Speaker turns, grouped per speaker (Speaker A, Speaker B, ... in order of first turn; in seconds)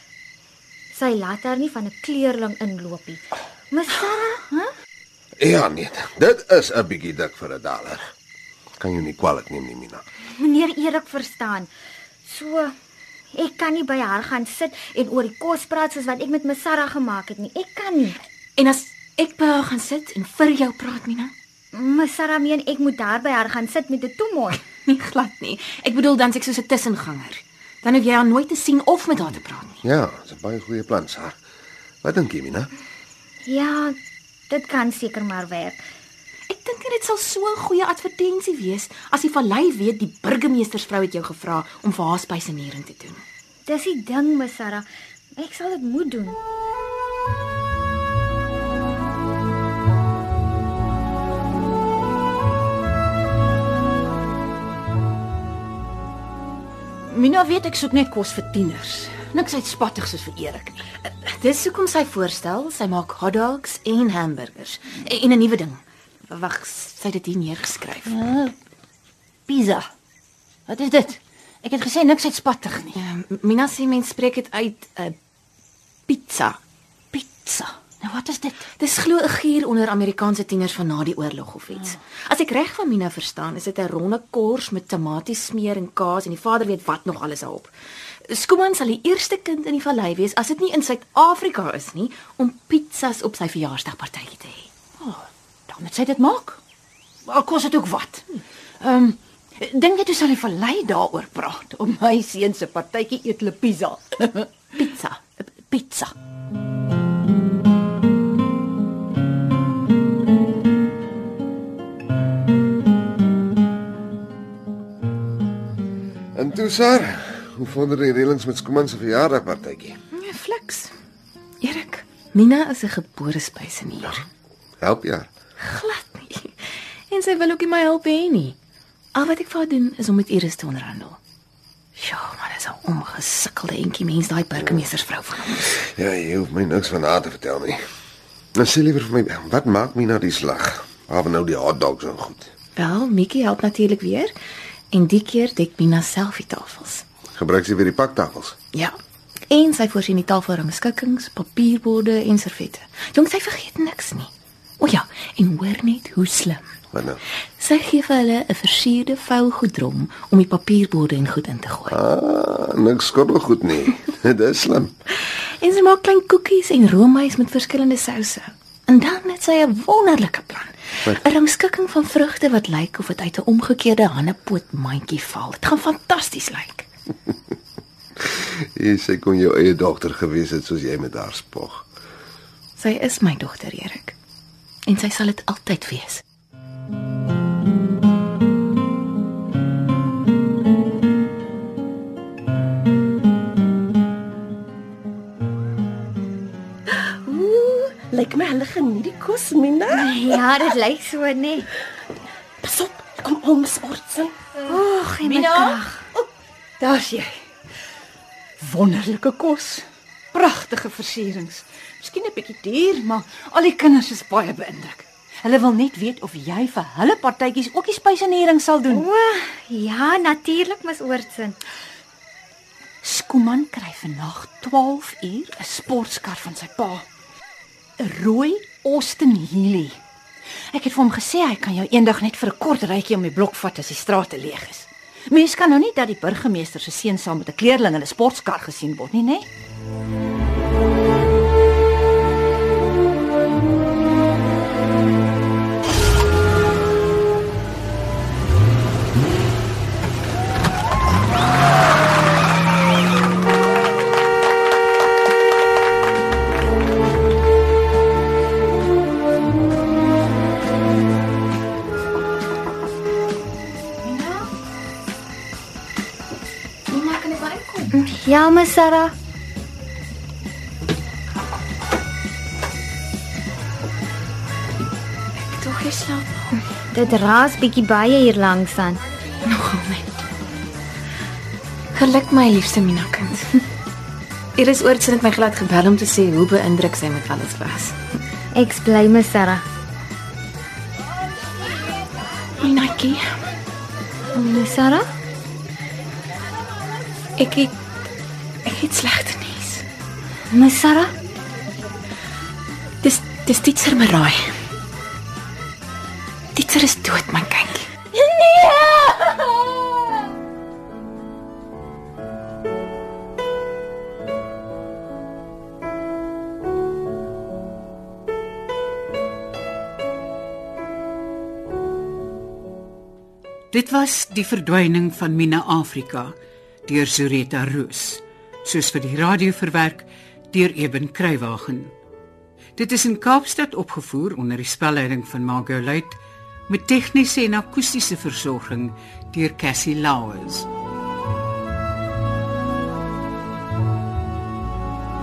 Speaker A: 0.9-4.7, 10.4-11.7, 12.3-12.7, 13.3-18.2, 21.7-24.6, 33.5-34.0, 34.5-35.8, 43.7-44.9, 45.4-46.4, 199.9-201.7, 204.6-206.0, 218.9-221.6, 267.9-269.1, 276.9-279.0, 288.6-289.6, 294.3-295.0, 300.5-301.1
Speaker B: 5.4-8.0, 8.8-10.0, 29.8-31.4, 32.0-32.7, 116.4-120.0, 124.8-125.3, 134.6-134.8, 135.8-137.8, 138.6-142.5, 147.3-148.6, 156.9-157.2, 161.9-164.9, 178.3-181.8
Speaker C: 18.6-21.3, 24.8-29.8, 36.5-43.2, 61.0-68.1, 73.0-75.2, 76.1-76.6, 78.8-87.7, 88.3-94.7, 120.1-120.9, 121.6-124.2, 125.6-126.5, 127.1-128.6, 129.2-131.2, 132.0-135.7, 142.8-144.3, 144.9-147.0, 149.5-154.3, 154.8-156.6, 157.6-161.9, 165.6-176.9, 182.8-184.1, 184.9-186.2, 266.9-267.9, 275.4-276.4, 279.5-280.1, 281.9-283.6, 284.6-287.9, 292.6-293.3, 297.4-297.7, 298.6-299.8, 303.0-304.5, 306.6-307.9
Speaker D: 57.1-60.9, 68.1-68.5, 69.5-69.9, 70.7-73.0, 77.1-78.7, 95.0-96.6, 97.3-106.1, 204.7-206.3, 206.8-207.4, 208.6-219.1, 223.0-227.1, 228.0-230.0, 230.7-239.5, 264.1-264.5, 308.2-309.4
Speaker E: 196.9-200.6, 202.6-204.4
Speaker F: 323.7-331.9, 332.8-340.7